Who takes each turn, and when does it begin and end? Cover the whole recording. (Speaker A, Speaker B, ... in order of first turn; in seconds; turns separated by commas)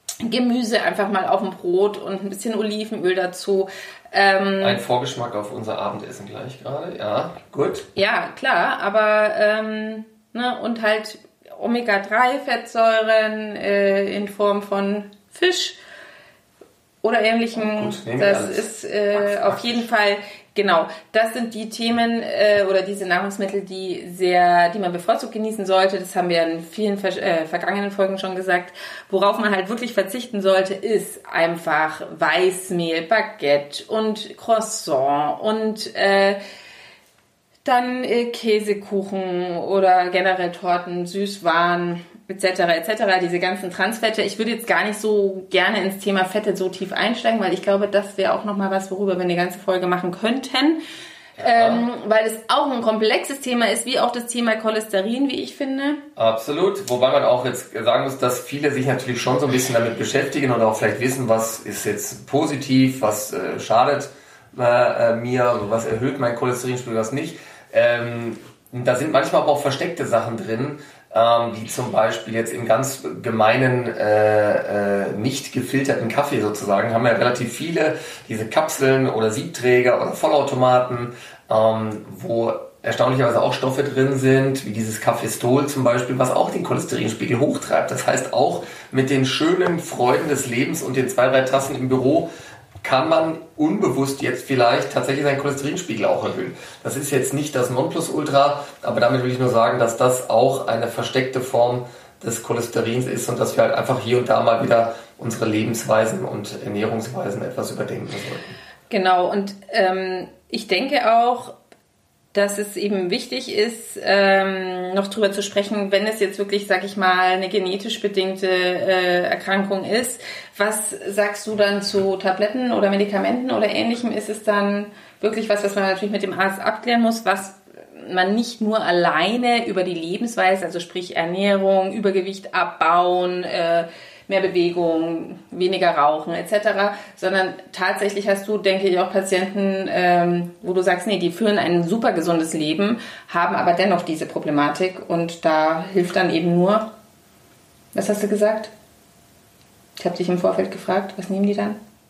Speaker A: 0.2-4.8, Speaker B: 4.6-7.9, Speaker A: 8.0-15.8, Speaker A: 17.0-36.4, Speaker B: 17.6-19.9, Speaker A: 37.6-50.8, Speaker B: 51.4-51.9, Speaker A: 51.4-56.0, Speaker B: 56.2-92.3, Speaker B: 92.8-108.6, Speaker A: 108.9-111.6, Speaker A: 112.3-146.9, Speaker A: 147.9-148.7, Speaker A: 150.0-151.8